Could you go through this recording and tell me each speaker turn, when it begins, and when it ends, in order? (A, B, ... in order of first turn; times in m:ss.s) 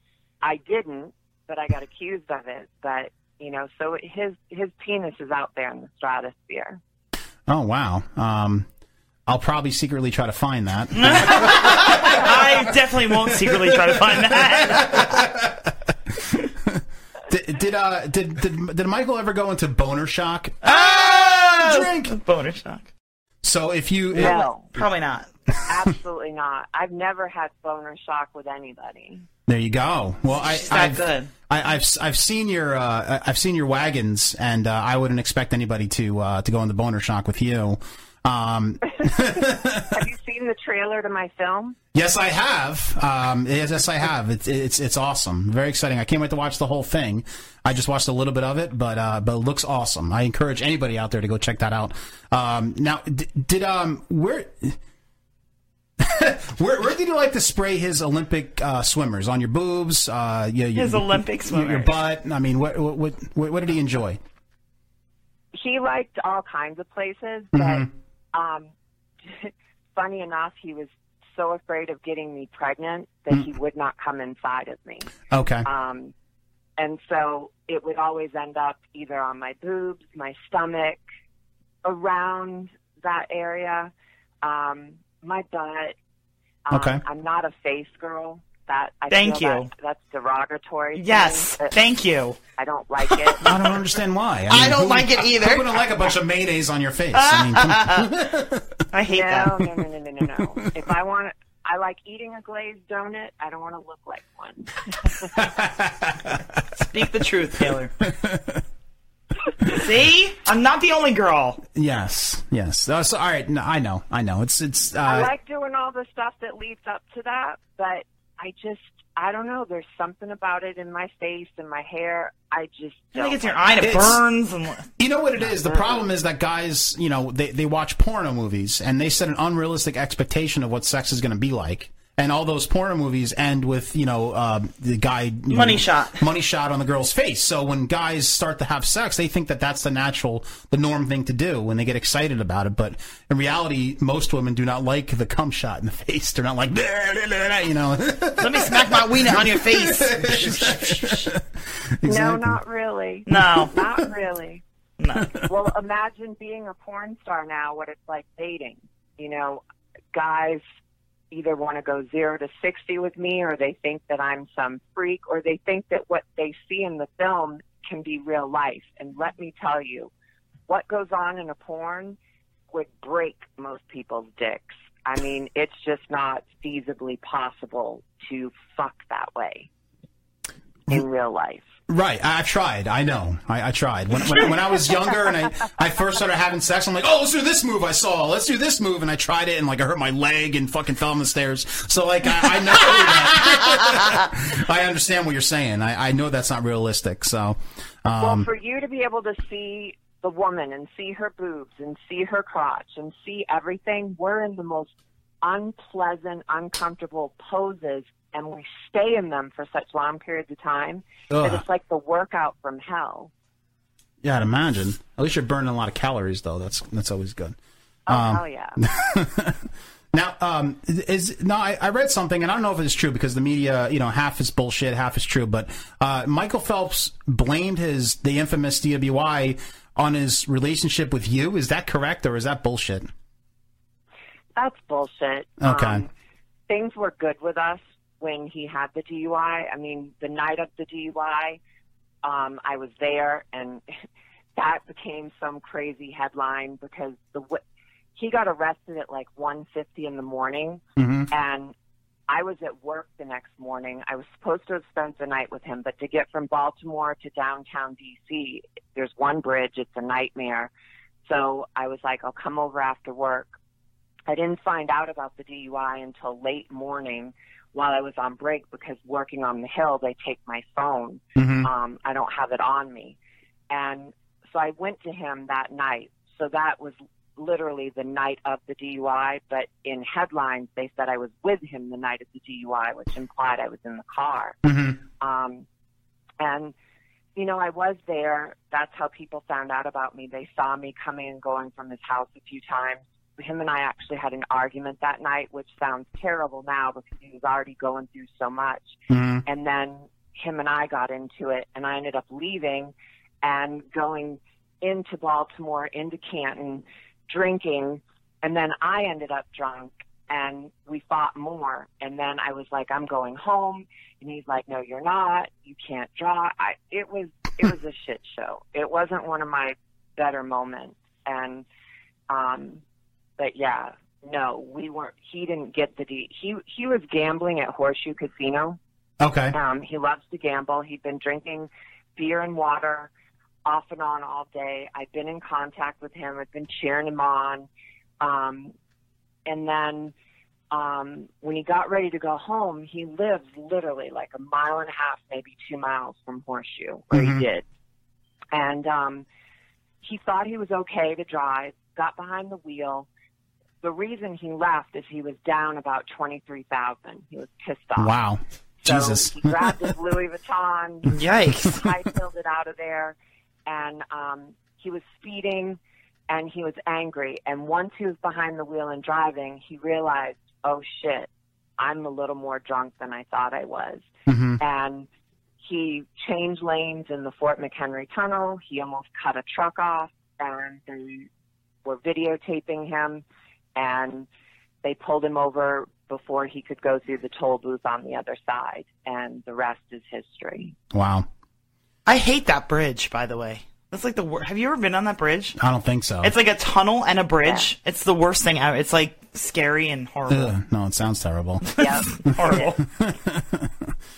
0:00.4-0:06.8 A
0:07.5-0:08.7 B
0:09.3-0:12.6 B
0:10.9-0:15.3 C
0:13.1-0:15.7 B
0:16.6-0:22.1 B
0:20.6-0:22.9 C
0:23.4-0:24.4 B
0:24.2-0:25.3 C
0:24.2-0:24.7 A
0:25.6-0:29.2 A
0:29.5-0:40.0 B
0:30.4-0:31.3 C
0:39.0-0:39.4 A
0:39.9-0:41.8 A
0:41.9-0:54.8 B
0:56.0-1:04.2 B
1:00.7-1:01.9 C
1:05.5-1:08.7 A
1:07.5-1:07.9 B
1:09.2-1:15.1 A
1:15.3-1:15.7 B
1:15.6-1:16.1 A
1:16.8-1:21.0 A
1:21.8-1:26.0 A
1:26.6-1:31.7 A
1:26.7-1:27.0 B
1:29.1-1:29.7 C
1:30.9-1:32.4 C
1:32.6-1:33.4 A
1:33.1-1:33.7 C
1:33.4-1:38.8 B
1:34.5-1:36.0 C
1:37.1-1:38.1 C
1:38.9-1:39.6 C
1:39.1-1:45.3 A
1:45.3-1:46.4 B
1:46.8-1:47.9 C
1:48.0-1:48.6 B
1:49.6-1:51.6 C
1:51.7-1:55.3 B
1:55.0-2:04.2 A
2:03.1-2:04.9 C
2:03.8-2:04.2 B
2:05.0-2:31.4 B
2:15.5-2:16.2 C
2:28.4-2:31.3 C
2:32.0-2:32.6 B
2:32.1-2:34.6 A
2:33.3-2:33.7 C
2:35.0-2:35.4 C
2:35.4-2:39.6 A
2:40.1-2:40.6 A
2:41.3-2:50.1 A
2:50.7-2:52.2 A
2:52.7-2:59.7 A
3:00.9-3:01.7 A
3:01.9-3:18.5 B
3:18.2-3:33.3 A
3:31.3-3:31.6 B
3:34.2-3:37.6 B
3:38.1-3:38.9 A
3:38.1-3:53.1 B
3:54.6-3:56.1 A
3:55.6-3:56.0 B
3:56.7-4:01.6 A
4:02.2-4:03.8 A
4:04.6-4:07.6 A
4:08.2-4:11.7 A
4:11.0-4:11.3 B
4:12.3-4:20.7 A
4:21.2-4:23.6 A
4:24.3-4:33.2 A
4:31.4-4:31.7 B
4:33.7-4:44.6 A
4:44.6-4:45.0 B
4:45.2-4:45.6 A
4:46.4-4:46.7 A
4:47.4-5:21.6 A
4:59.1-4:59.4 B
5:22.3-5:22.8 A
5:23.4-5:28.8 A
5:29.2-5:29.5 B
5:29.5-5:33.1 A
5:33.6-5:37.7 A
5:38.2-5:38.7 A
5:39.4-5:40.1 A
5:40.7-5:47.6 A
5:47.1-5:47.4 B
5:48.5-5:49.2 A
5:50.0-5:53.1 A
5:53.8-5:58.1 A
5:58.0-5:59.9 B
5:58.8-6:01.1 A
6:01.1-6:01.8 C
6:01.6-6:14.1 A
6:14.3-6:14.6 B
6:14.6-6:15.1 A
6:15.6-6:21.3 A
6:21.8-6:23.2 A
6:23.7-6:24.3 A
6:24.8-6:30.8 A
6:30.9-6:31.3 B
6:32.0-6:35.6 C
6:35.6-6:36.3 B
6:36.2-6:40.5 C
6:37.4-6:37.7 A
6:40.3-6:41.6 B
6:41.7-6:42.8 C
6:41.8-6:42.7 A
6:42.2-6:43.9 B